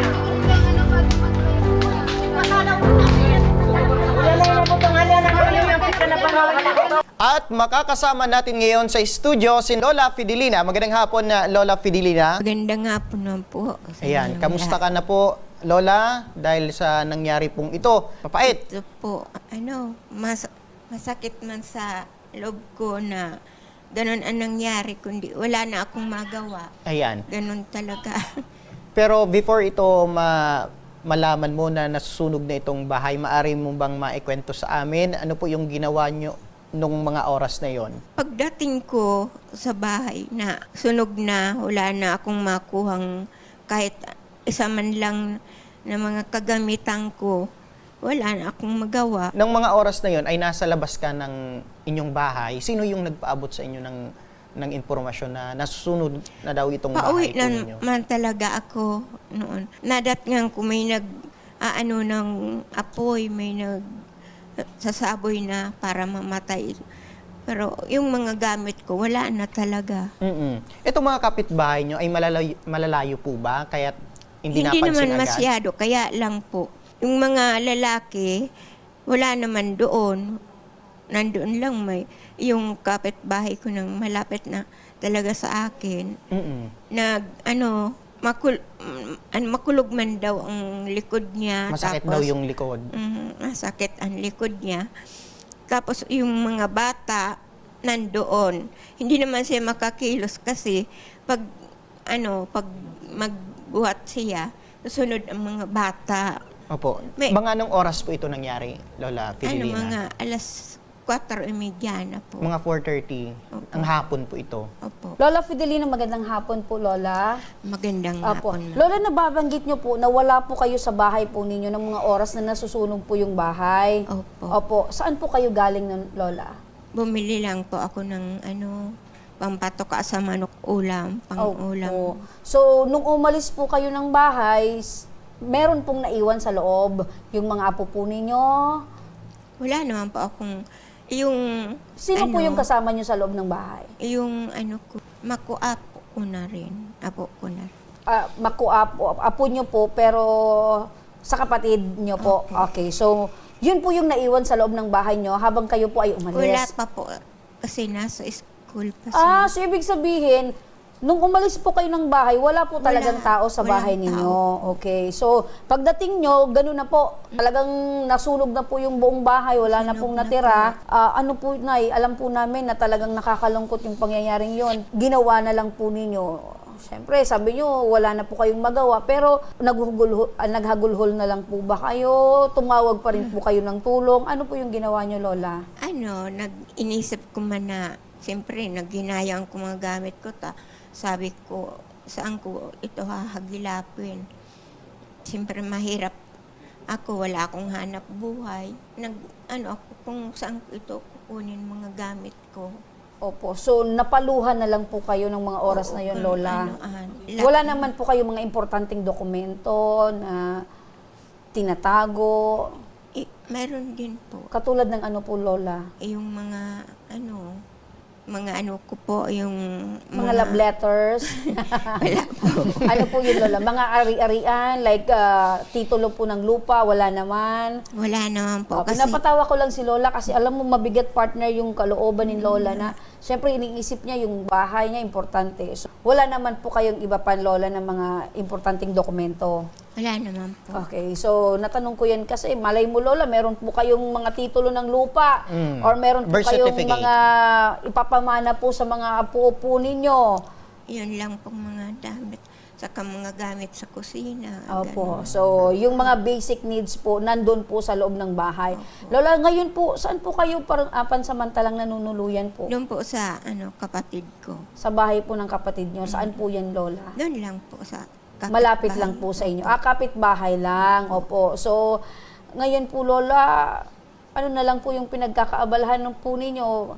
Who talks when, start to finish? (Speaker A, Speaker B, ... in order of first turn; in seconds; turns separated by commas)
Speaker A: 7.2-12.4, Speaker B: 12.4-14.8, Speaker A: 14.0-18.6, Speaker B: 18.4-23.3, Speaker B: 23.9-26.7, Speaker A: 26.9-27.2, Speaker B: 27.3-28.2, Speaker A: 28.9-38.0, Speaker B: 38.2-43.0, Speaker B: 43.7-44.0, Speaker B: 44.5-45.2, Speaker B: 45.9-47.4, Speaker B: 48.0-49.3, Speaker A: 49.4-54.0, Speaker A: 54.6-57.8, Speaker B: 56.9-61.0, Speaker B: 61.6-63.8, Speaker B: 64.8-66.8, Speaker B: 67.5-70.1, Speaker A: 70.2-75.5, Speaker B: 74.5-78.3, Speaker B: 79.1-80.2, Speaker B: 81.1-86.1, Speaker A: 86.3-86.7, Speaker B: 86.9-87.7, Speaker B: 88.2-92.3, Speaker A: 91.7-92.8, Speaker B: 92.9-94.8, Speaker B: 95.7-97.3, Speaker B: 97.8-101.4, Speaker B: 102.1-106.3, Speaker A: 106.7-110.0, Speaker B: 109.5-110.5, Speaker B: 111.0-112.5, Speaker A: 112.4-114.7, Speaker B: 113.5-113.9, Speaker B: 114.8-115.2, Speaker C: 115.2-117.4, Speaker B: 117.7-118.8, Speaker C: 118.2-124.0, Speaker B: 124.1-124.5, Speaker C: 124.5-126.5, Speaker B: 126.9-128.8, Speaker B: 129.4-132.2, Speaker C: 131.4-134.9, Speaker C: 135.5-138.8, Speaker B: 139.6-140.6, Speaker B: 141.1-142.7, Speaker C: 142.0-143.9, Speaker B: 144.0-147.7, Speaker C: 148.1-156.7, Speaker B: 152.2-152.7, Speaker B: 156.3-157.1, Speaker B: 157.6-159.5, Speaker C: 159.1-160.5, Speaker C: 161.0-185.6, Speaker B: 162.8-164.4, Speaker B: 169.7-170.7, Speaker B: 185.8-194.2, Speaker B: 195.3-196.1, Speaker B: 196.9-202.7, Speaker C: 203.2-206.7, Speaker B: 205.7-207.9, Speaker C: 207.4-210.6, Speaker C: 211.5-212.7, Speaker B: 213.2-214.5, Speaker C: 214.5-215.8, Speaker B: 216.0-217.4, Speaker B: 218.3-219.6, Speaker B: 220.1-220.6, Speaker C: 220.2-222.0, Speaker B: 222.0-223.5, Speaker C: 222.8-227.7, Speaker B: 227.9-229.2, Speaker C: 228.7-239.6, Speaker B: 232.2-232.9, Speaker B: 240.0-240.8, Speaker C: 240.7-250.3, Speaker A: 245.5-247.1, Speaker B: 250.9-255.2, Speaker C: 254.7-262.7, Speaker A: 255.2-255.6, Speaker B: 258.7-259.1, Speaker B: 262.7-264.6, Speaker C: 264.8-267.1, Speaker B: 266.1-266.3, Speaker B: 267.2-269.8, Speaker C: 268.5-272.0, Speaker B: 270.8-271.2, Speaker C: 272.6-273.8, Speaker C: 274.4-276.7